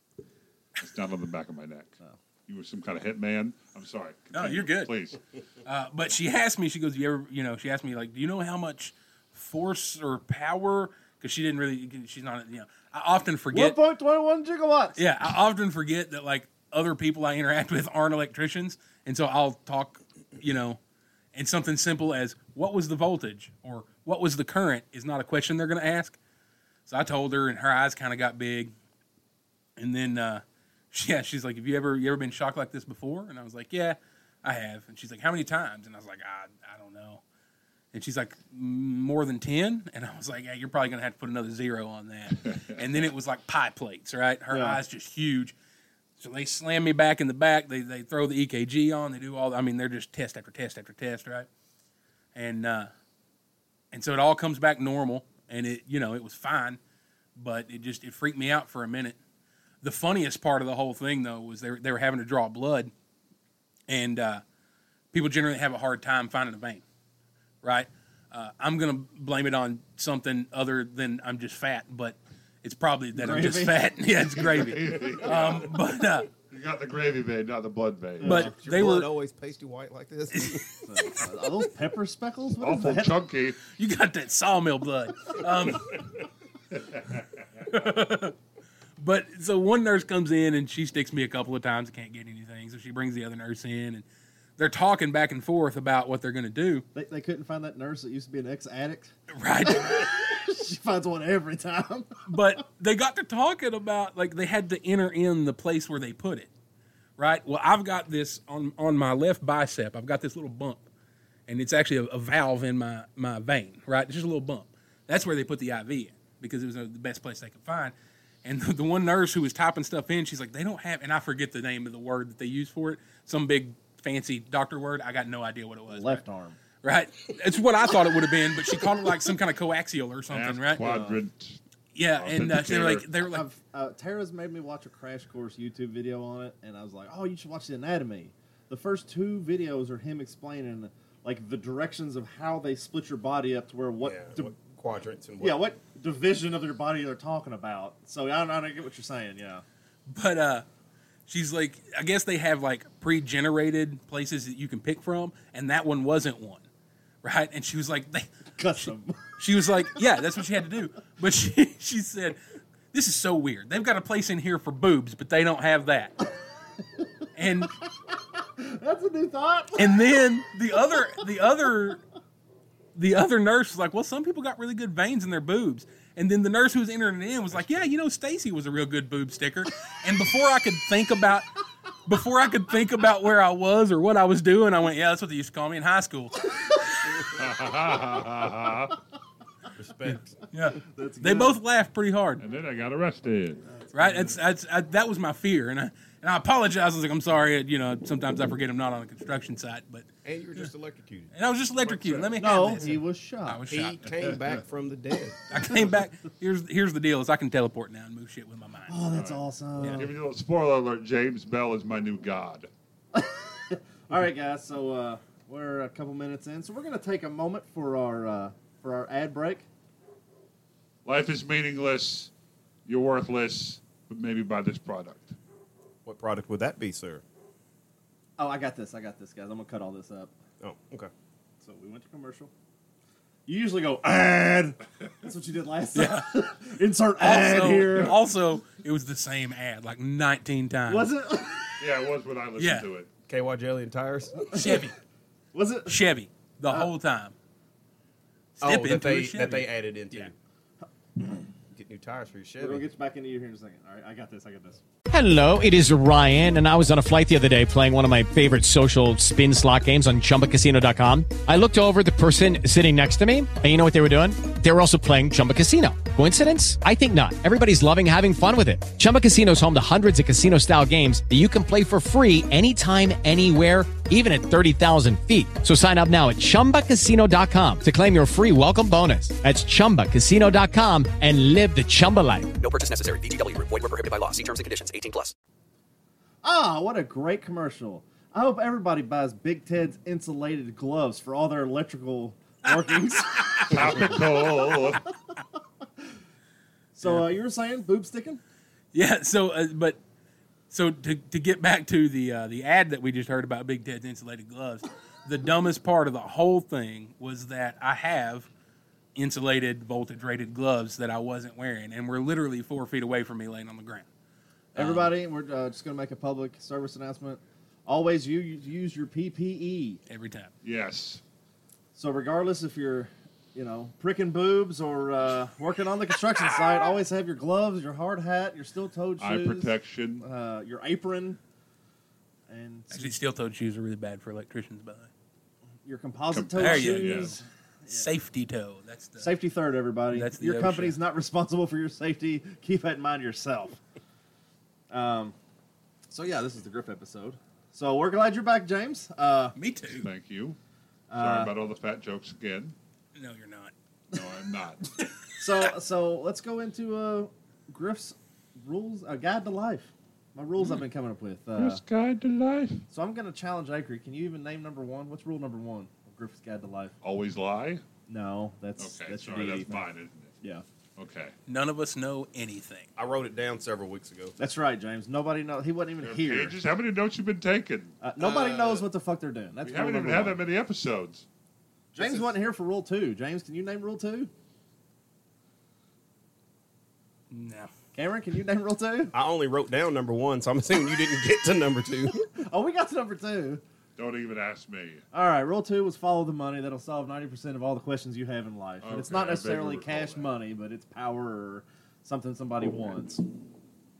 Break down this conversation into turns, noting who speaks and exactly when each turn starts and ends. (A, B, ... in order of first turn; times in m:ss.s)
0:00.8-0:05.2 A
0:04.3-0:04.9 B
0:05.6-0:13.8 B
0:13.5-0:15.0 C
0:15.0-0:20.8 B
0:21.3-0:26.2 B
0:26.9-0:28.7 B
0:29.8-0:37.2 B
0:37.9-0:45.5 B
0:42.4-0:42.8 A
0:44.5-0:44.8 C
0:46.2-0:51.5 B
0:52.3-0:52.9 B
0:53.9-0:56.8 B
0:57.4-0:59.2 B
0:59.8-1:02.9 B
1:03.9-1:04.4 B
1:05.1-1:06.8 B
1:07.6-1:16.3 B
1:13.1-1:13.9 C
1:14.4-1:15.7 A
1:16.5-1:18.5 A
1:18.2-1:18.5 C
1:18.2-1:19.1 B
1:18.3-1:20.6 D
1:20.3-1:20.8 B
1:20.8-1:23.2 C
1:22.6-1:23.6 A
1:23.8-1:26.0 B
1:26.8-1:27.2 A
1:27.6-1:28.4 B
1:29.0-1:34.0 B
1:34.6-1:36.8 B
1:36.9-1:39.1 C
1:39.3-1:40.0 B
1:39.6-1:42.2 C
1:42.3-1:46.5 B
1:47.2-1:50.8 B
1:51.5-2:06.2 B
2:05.9-2:06.6 C
2:06.8-2:10.8 B
2:10.3-2:11.6 A
2:10.8-2:11.2 C
2:11.9-2:13.4 B
2:12.2-2:13.1 A
2:13.2-2:24.5 C
2:24.0-2:25.6 D
2:25.4-2:29.6 C
2:30.1-2:30.6 B
2:31.3-2:36.6 B
2:37.2-2:42.4 B
2:38.6-2:39.2 C
2:42.9-2:46.1 B
2:47.3-2:47.7 B
2:48.1-2:50.1 C
2:49.8-2:52.0 B
2:52.9-3:01.5 B
3:02.0-3:06.4 B
3:07.3-3:09.0 A
3:09.7-3:10.4 D
3:10.5-3:12.4 B
3:10.8-3:11.6 C
3:12.4-3:13.6 A
3:13.7-3:14.3 C
3:13.9-3:20.7 B
3:20.2-3:21.3 D
3:21.3-3:24.3 B
3:21.8-3:22.5 A
3:22.4-3:23.6 C
3:23.7-3:25.4 D
3:25.5-3:29.0 B
3:28.9-3:30.1 C
3:29.1-3:32.7 A
3:33.1-3:39.6 C
3:41.0-3:42.3 A
3:42.8-3:45.4 A
3:46.0-3:47.2 D
3:48.4-3:50.3 C
3:50.6-3:51.1 D
3:51.6-3:52.5 C
3:53.4-3:58.2 C
3:55.9-3:56.3 B
3:57.2-4:01.1 B
3:57.7-3:58.1 A
4:00.9-4:01.8 C
4:01.8-4:03.1 A
4:02.6-4:02.8 B
4:03.3-4:04.8 D
4:04.5-4:04.9 B
4:04.6-4:04.8 C
4:05.5-4:06.0 C
4:05.9-4:07.3 B
4:08.6-4:10.3 B
4:08.6-4:10.3 D
4:11.7-4:12.8 D
4:12.6-4:14.8 C
4:15.1-4:42.5 E
4:42.6-4:45.3 F
4:46.4-4:54.8 C
4:53.6-4:55.0 A
4:57.0-4:58.4 C
4:58.9-5:00.0 B
5:00.7-5:08.5 B
5:09.1-5:14.1 B
5:14.7-5:20.0 C
5:14.8-5:15.1 B
5:20.1-5:20.5 B
5:20.6-5:21.2 A
5:21.9-5:31.4 C
5:29.2-5:30.2 A
5:32.5-5:33.1 C
5:32.9-5:35.1 B
5:35.8-5:38.1 C
5:36.3-5:37.4 A
5:36.6-5:39.3 B
5:39.2-5:43.8 C
5:40.1-5:41.0 B
5:44.9-5:45.3 C
5:46.1-5:49.6 C
5:49.6-5:50.1 B
5:49.9-5:50.6 A
5:51.1-5:51.5 C
5:51.2-5:52.8 A
5:53.2-5:53.7 B
5:54.1-5:54.9 A
5:55.4-6:01.8 C
6:01.6-6:02.8 A
6:02.9-6:06.9 C
6:07.0-6:07.8 A
6:08.1-6:09.8 C
6:08.8-6:10.3 A
6:11.0-6:11.3 A
6:11.5-6:12.9 B
6:13.0-6:14.4 D
6:14.4-6:16.6 C
6:16.0-6:18.6 A
6:18.0-6:20.4 C
6:18.2-6:18.8 B
6:19.6-6:21.2 A
6:21.9-6:24.3 C
6:22.0-6:22.3 A
6:27.3-6:27.7 B
6:27.9-6:29.1 C
6:29.1-6:32.3 D
6:32.4-6:33.6 C
6:34.0-6:35.0 A
6:35.1-6:43.2 C
6:38.8-6:40.3 A